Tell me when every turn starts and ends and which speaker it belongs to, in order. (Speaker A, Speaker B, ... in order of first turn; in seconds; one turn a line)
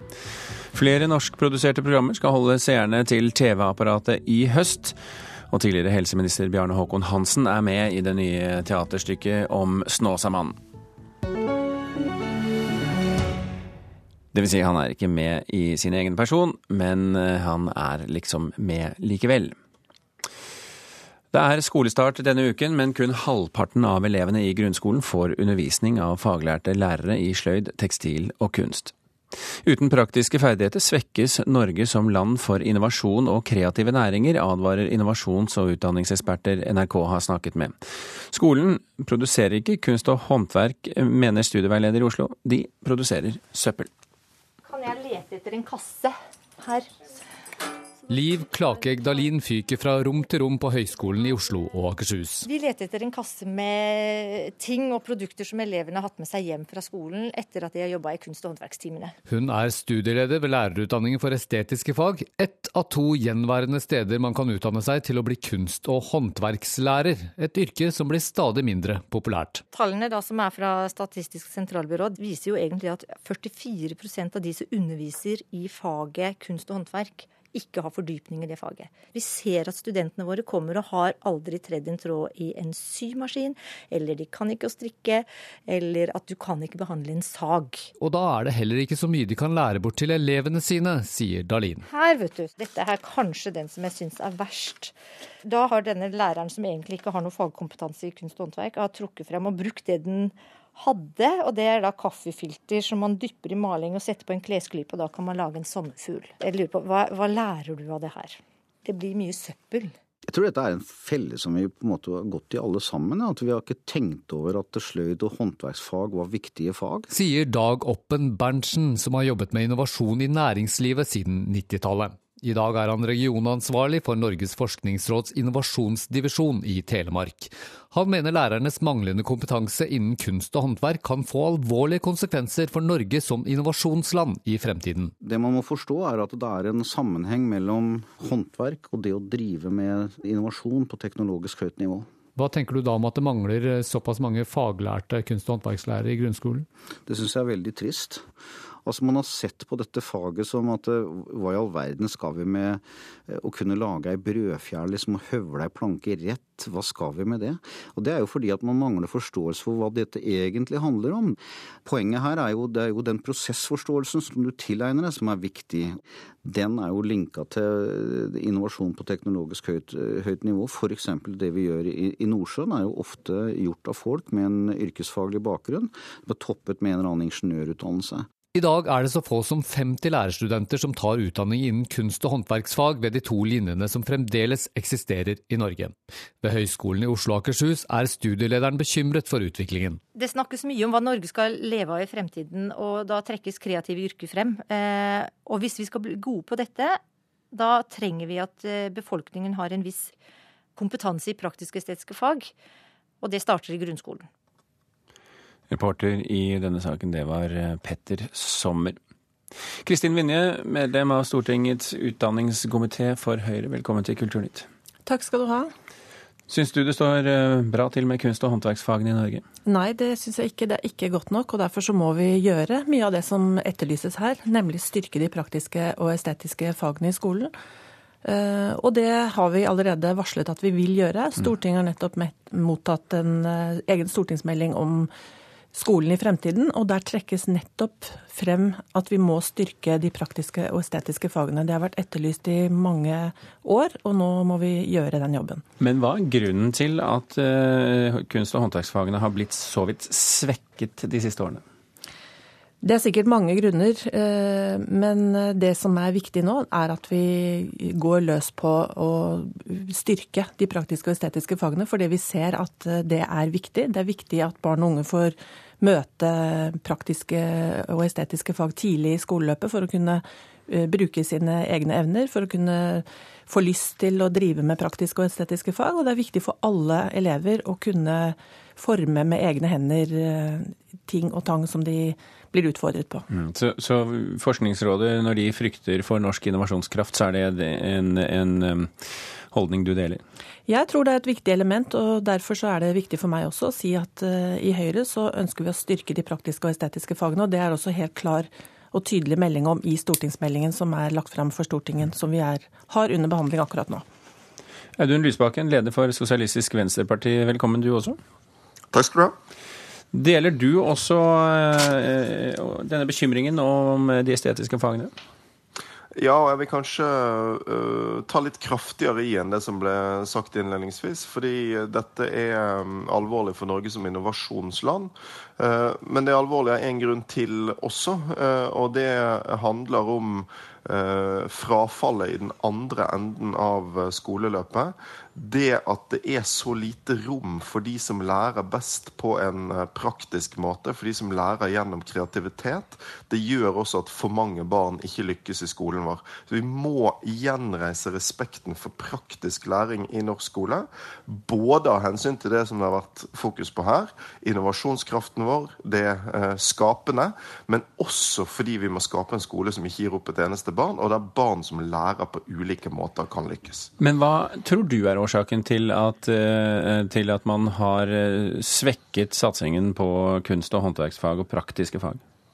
Speaker A: 0.7-5.0
Speaker A: 5.5-10.6
Speaker A: 14.3-19.6
Speaker A: 21.3-28.9
Speaker A: 29.6-37.8
Speaker A: 38.3-43.9
Speaker B: 44.6-46.9
Speaker C: 48.1-52.5
Speaker B: 52.5-59.1
Speaker C: 59.3-69.6
Speaker B: 69.7-87.9
Speaker C: 88.0-91.8
Speaker B: 91.9-109.9
Speaker D: 110.3-117.1
Speaker C: 117.1-135.1
Speaker D: 135.2-142.1
Speaker C: 142.3-146.7
Speaker D: 147.1-148.3
Speaker D: 148.8-178.3
Speaker C: 178.5-190.0
Speaker B: 190.1-197.0
Speaker B: 197.5-200.1
Speaker B: 200.8-202.5
Speaker B: 203.2-204.3
Speaker A: 205.7-209.0
Speaker A: 209.8-214.7
Speaker E: 215.1-215.7
Speaker A: 216.5-219.4
Speaker E: 219.7-227.5
Speaker E: 228.2-235.1
Speaker E: 235.7-245.6
Speaker A: 245.8-251.6
Speaker E: 252.8-283.2
Speaker A: 283.3-290.2
Speaker E: 290.7-304.0
Speaker A: 305.0-308.2
Speaker F: 308.9-309.3
Speaker A: 310.1-315.1
Speaker F: 316.1-363.9
Speaker A: 364.0-372.2